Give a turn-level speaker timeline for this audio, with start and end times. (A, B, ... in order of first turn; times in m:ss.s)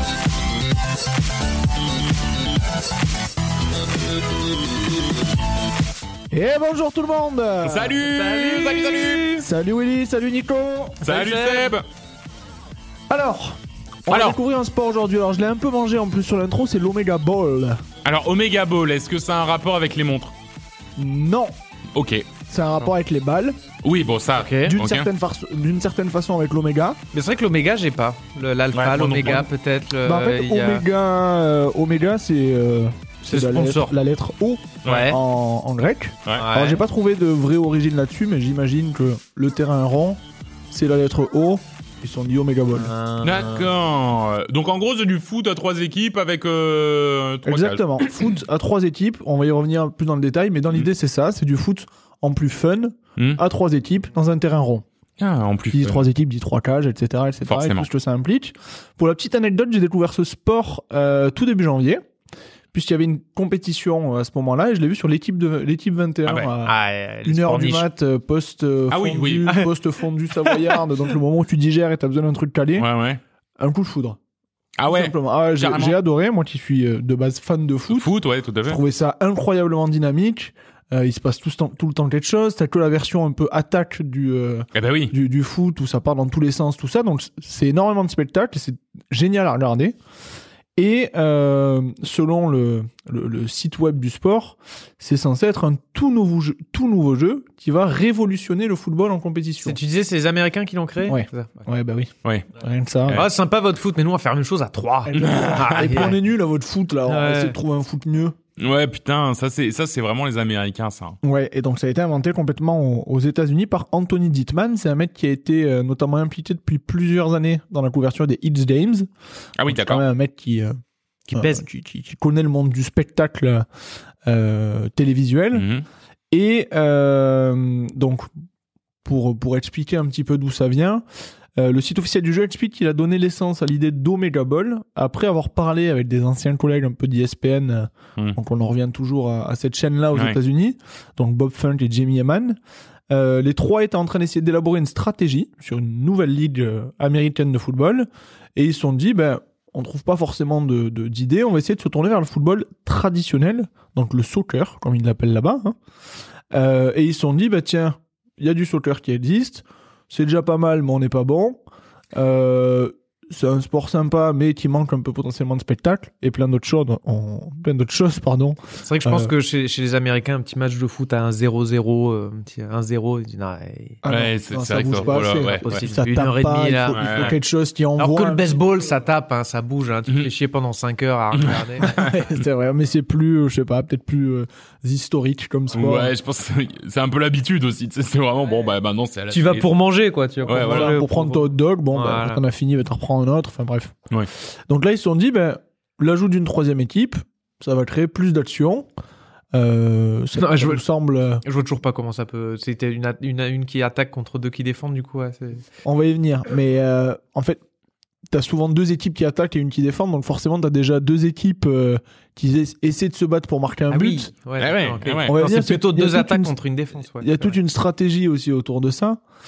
0:06.3-0:08.0 A
0:07.6-0:09.4 B
0:08.0-0:09.3 C
0:09.3-0:11.1 A
0:11.0-0:11.8 B
0:11.0-0:11.7 C
0:13.1-0:17.8 A
0:14.1-0:14.4 B
0:18.0-0:20.3 B
0:21.0-0:21.5 A
0:21.9-0:22.3 B
0:22.5-0:23.6 A
0:23.8-0:25.1 B
0:24.4-0:24.7 C
0:24.7-0:27.0 A
0:27.1-0:30.8 C
0:28.7-0:29.5 B
0:30.0-0:42.9 A
0:33.3-0:33.9 C
0:34.8-0:35.2 B
0:34.8-0:35.2 C
0:36.4-0:36.8 C
0:42.8-0:43.7 C
0:43.2-0:48.3 B
0:47.4-0:54.8 A
0:55.2-0:56.0 B
0:55.7-1:02.0 A
0:57.4-0:57.9 B
1:02.7-1:12.9 A
1:06.2-1:06.5 B
1:06.6-1:07.9 C
1:08.9-1:09.6 B
1:10.4-1:10.8 C
1:12.8-1:13.2 B
1:13.6-1:14.2 A
1:14.8-1:16.0 B
1:14.9-1:18.1 A
1:17.9-1:18.8 B
1:18.6-1:30.0 A
1:24.7-1:25.1 B
1:30.8-1:39.8 A
1:39.6-1:41.6 C
1:41.0-1:43.2 A
1:43.1-1:46.2 C
1:45.0-1:48.3 A
1:45.2-1:46.1 B
1:47.0-1:47.6 C
1:48.6-1:51.2 B
1:51.2-1:59.1 A
1:59.6-2:00.0 B
1:59.6-2:00.8 A
2:01.3-2:01.6 C
2:01.3-2:03.6 A
2:04.2-2:05.7 A
2:05.5-2:05.8 B
2:06.3-2:08.3 A
2:09.0-2:11.0 A
2:11.6-2:22.6 A
2:23.1-2:35.7 A
2:36.5-2:41.6 A
2:42.1-2:49.3 A
2:48.8-2:54.0 C
2:54.0-2:58.6 A
2:54.1-2:55.8 B
2:54.8-2:57.4 C
2:56.9-2:57.4 B
2:58.0-3:01.9 C
3:01.3-3:02.4 B
3:01.8-3:06.1 A
3:05.7-3:09.7 B
3:09.3-3:12.4 C
3:10.4-3:11.0 B
3:10.4-3:13.9 A
3:14.7-3:18.9 A
3:19.5-3:21.4 A
3:20.4-3:20.8 C
3:21.4-3:25.6 C
3:25.8-3:27.6 A
3:28.3-3:34.3 A
3:33.9-3:37.6 C
3:34.6-3:35.4 B
3:35.2-3:36.6 A
3:37.1-3:39.2 A